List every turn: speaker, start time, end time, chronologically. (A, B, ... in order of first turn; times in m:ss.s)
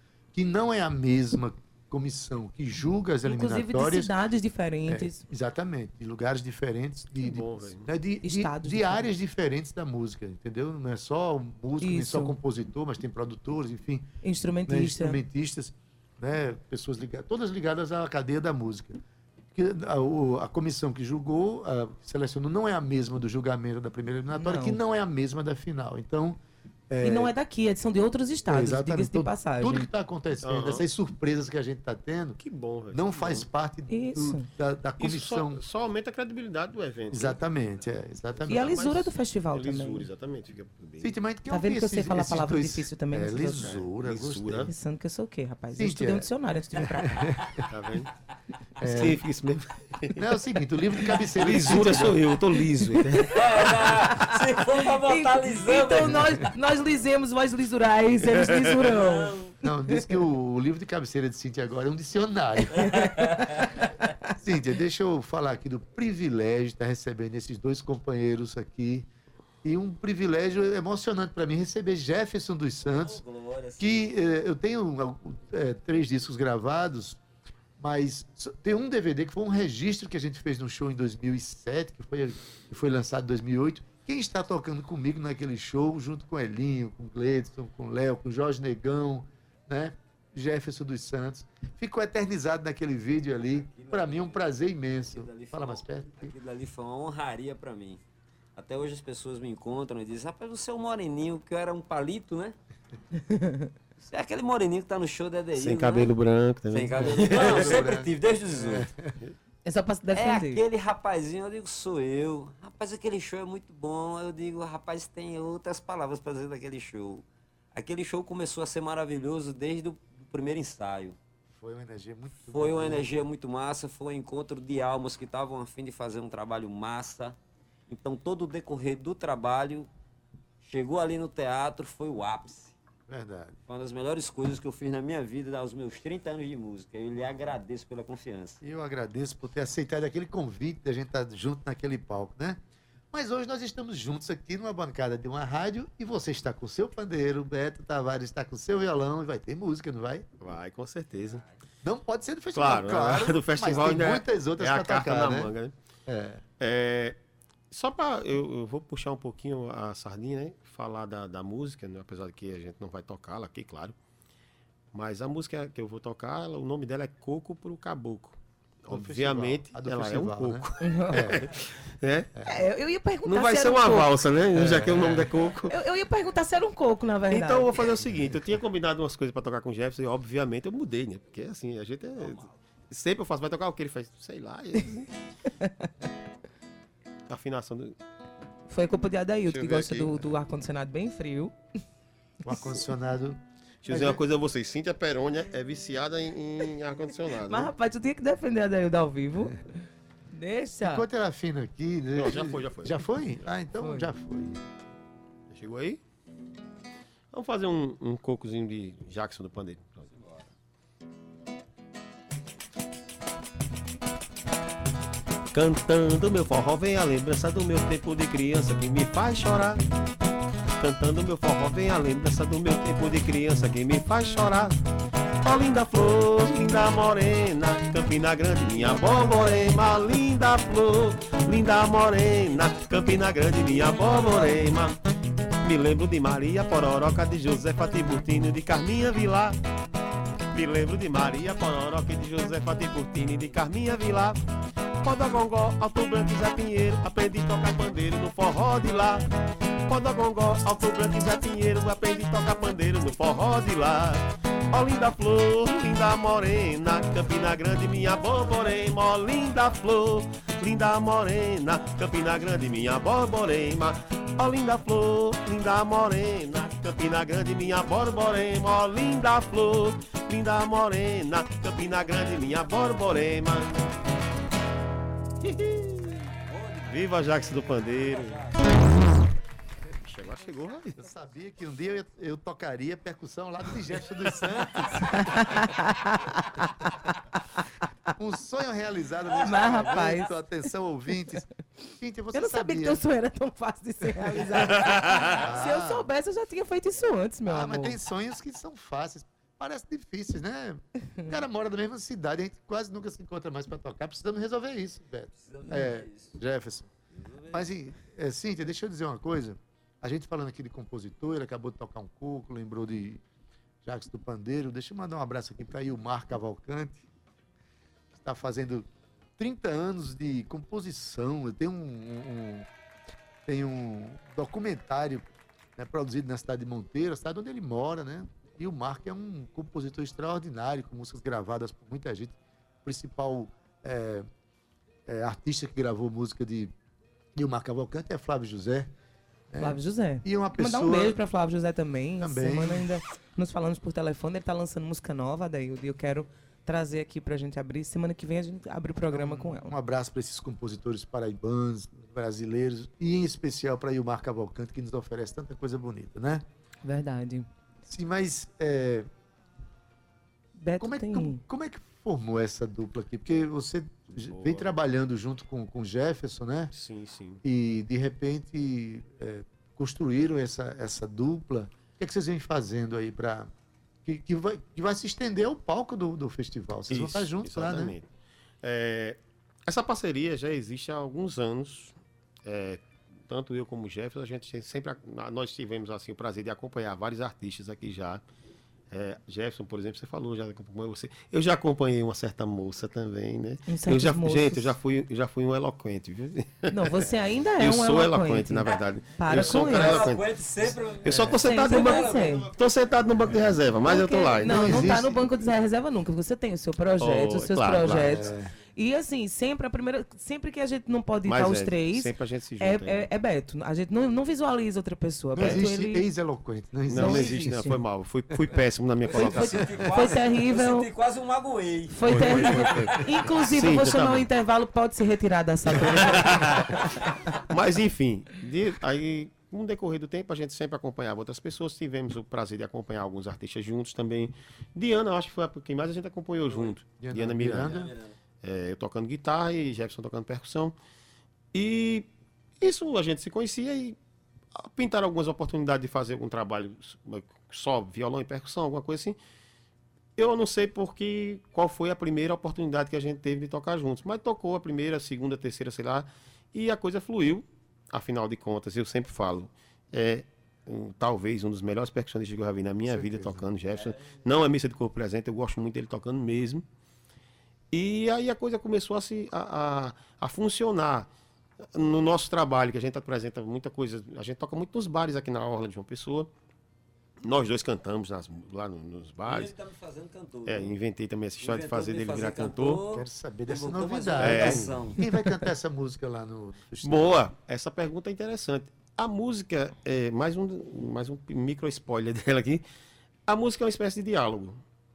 0:00.3-0:04.1 A
0:03.2-0:05.2 B
0:04.9-0:14.1 A
0:07.2-0:07.9 C
0:08.2-0:09.1 B
0:11.8-0:12.4 B
0:14.2-0:15.2 B
0:14.7-0:19.0 A
0:19.6-0:26.4 A
0:24.4-0:24.8 B
0:26.9-0:27.3 A
0:27.0-0:29.9 B
0:28.5-0:32.4 A
0:30.4-0:30.8 C
0:32.4-0:33.5 C
0:32.9-0:35.6 A
0:33.9-0:34.5 B
0:35.0-0:37.4 C
0:37.1-0:38.9 A
0:38.5-0:41.1 C
0:38.5-0:40.1 B
0:41.0-0:44.7 A
0:41.5-0:43.7 B
0:43.6-0:44.7 C
0:44.7-0:47.3 B
0:45.7-0:46.3 A
0:46.8-0:47.6 A
0:47.7-0:48.1 C
0:48.8-0:49.2 A
0:48.8-0:50.3 C
0:50.1-0:52.3 A
0:51.3-0:53.4 C
0:53.2-0:56.4 D
0:55.0-0:59.4 B
0:58.3-0:58.8 C
0:58.9-0:59.6 D
0:59.6-1:02.8 A
1:02.7-1:03.6 D
1:02.8-1:04.1 B
1:04.4-1:09.1 A
1:09.6-1:13.2 A
1:12.9-1:14.1 D
1:13.8-1:17.2 A
1:17.8-1:36.3 A
1:33.7-1:34.5 D
1:35.1-1:38.0 D
1:38.6-1:42.6 D
1:43.3-1:43.7 B
1:44.0-1:46.1 D
1:45.6-1:47.8 C
1:46.7-1:48.9 D
1:47.1-1:49.1 A
1:49.6-1:50.6 B
1:50.1-2:01.2 D
2:01.5-2:03.1 A
2:02.5-2:07.4 D
2:07.9-2:09.9 D
2:10.6-2:12.8 D
2:13.1-2:13.6 A
2:13.7-2:18.6 D
2:18.6-2:22.6 A
2:23.1-2:30.3 A
2:30.4-2:31.4 C
2:31.8-2:35.5 A
2:32.5-2:35.7 C
2:36.1-2:36.4 A
2:36.6-2:37.2 C
2:37.7-2:44.0 C
2:44.9-2:52.3 C
2:48.9-2:51.5 A
2:50.8-2:51.3 B
2:52.5-2:54.2 B
2:53.2-2:55.8 C
2:54.6-2:55.3 A
2:55.7-2:57.7 B
2:57.3-3:05.1 C
3:07.3-3:08.0 C
3:08.7-3:11.6 B
3:09.5-3:10.1 C
3:12.4-3:14.2 A
3:13.8-3:17.7 C
3:17.5-3:19.7 B
3:20.3-3:21.0 B
3:20.8-3:24.6 A
3:22.1-3:23.1 C
3:23.8-3:24.1 B
3:25.5-3:26.0 C
3:27.3-3:30.1 C
3:35.5-3:39.8 C
3:40.8-3:44.8 C
3:45.4-3:55.0 C
3:55.6-3:59.6 C
4:00.5-4:04.4 C
4:05.0-4:09.2 C
4:09.9-4:33.9 C
4:35.4-4:36.3 C
4:36.5-4:38.8 D
4:36.9-4:38.4 C
4:40.0-4:40.9 C
4:40.9-4:45.4 A
4:45.1-4:47.1 B
4:48.1-4:51.5 A
4:49.4-4:50.3 B
4:52.0-4:53.0 A
4:52.3-4:58.0 B
4:54.8-4:56.1 A
4:57.5-5:06.9 A
5:05.3-5:06.4 D
5:07.1-5:07.8 D
5:07.5-5:13.2 A
5:13.8-5:17.0 A
5:18.1-5:22.7 A
5:23.5-5:34.3 A
5:35.1-5:36.7 A
5:37.4-5:38.9 A
5:39.5-5:41.2 A
5:39.6-5:49.8 B
5:42.2-5:42.9 A
5:49.1-5:56.4 A
5:56.8-5:57.5 B
5:57.8-5:59.1 A
6:00.6-6:01.4 B
6:00.8-6:06.7 A
6:04.2-6:04.7 C
6:06.7-6:07.4 C
6:07.4-6:13.5 A
6:14.0-6:18.0 A
6:16.9-6:18.1 C
6:18.6-6:28.2 C
6:28.9-6:37.0 C
6:33.7-6:34.7 B
6:36.7-6:40.1 B
6:37.6-6:40.3 C
6:39.4-6:42.5 D
6:41.0-6:44.9 C
6:41.1-6:41.4 A
6:41.4-6:42.5 B
6:43.8-6:56.1 B
6:44.4-6:45.2 A
6:47.0-6:48.3 C
6:48.0-6:48.5 A
6:51.2-6:53.1 C
6:55.4-6:57.8 A
6:56.9-6:59.8 C
6:56.9-6:57.8 B
6:59.1-6:59.9 A
6:59.1-7:02.9 D
6:59.4-7:00.9 B
7:01.9-7:06.4 B
7:02.0-7:03.0 C
7:02.2-7:02.8 A
7:03.5-7:04.3 C
7:05.7-7:06.8 C
7:07.4-7:17.9 C
7:16.5-7:16.8 D
7:17.0-7:17.9 A
7:17.5-7:18.1 D
7:18.4-7:20.8 C
7:21.5-7:22.1 C
7:22.6-7:24.0 C
7:24.6-7:29.2 C
7:30.2-7:46.6 C
7:42.9-7:43.5 A
7:47.7-7:51.1 C
7:51.6-7:56.3 C
7:57.2-7:59.5 C
7:59.2-8:00.8 D
8:00.5-8:02.8 C
8:01.4-8:05.1 D
8:02.9-8:07.2 A
8:04.2-8:04.8 C
8:05.0-8:05.4 B
8:06.8-8:12.6 C
8:13.3-8:14.6 C